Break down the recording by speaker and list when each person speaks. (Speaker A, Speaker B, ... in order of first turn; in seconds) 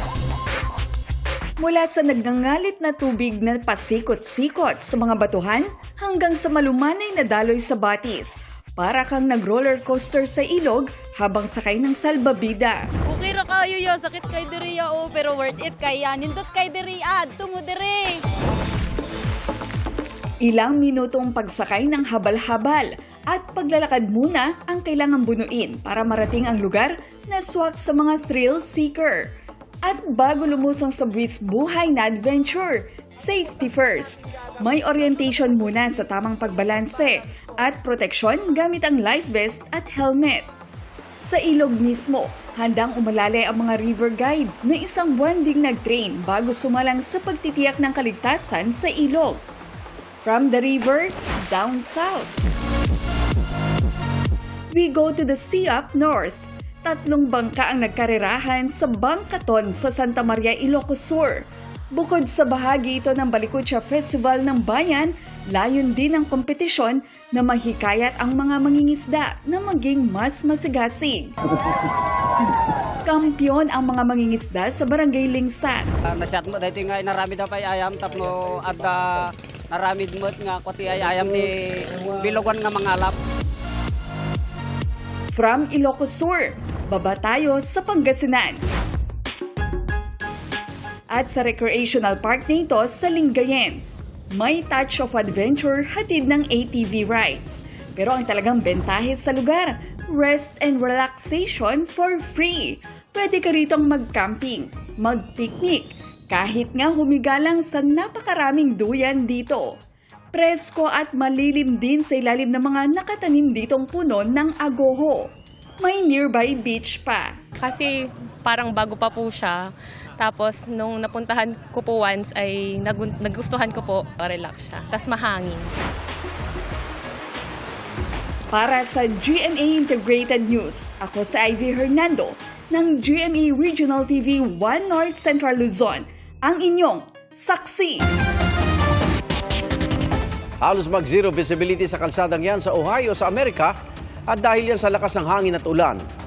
Speaker A: 1.6-12.8, 20.4-29.3, 29.8-40.5, 41.2-49.4, 50.2-52.4, 54.7-61.4, 62.0-71.3, 73.0-75.9, 85.3-88.6, 91.1-93.8, 94.4-109.8, 110.3-115.3, 115.8-117.3, 128.5-138.1
Speaker B: 13.1-18.2
Speaker C: 76.1-79.2, 79.7-81.5, 82.2-83.1
Speaker D: 117.5-125.7
Speaker E: 140.6-143.7, 144.3-146.0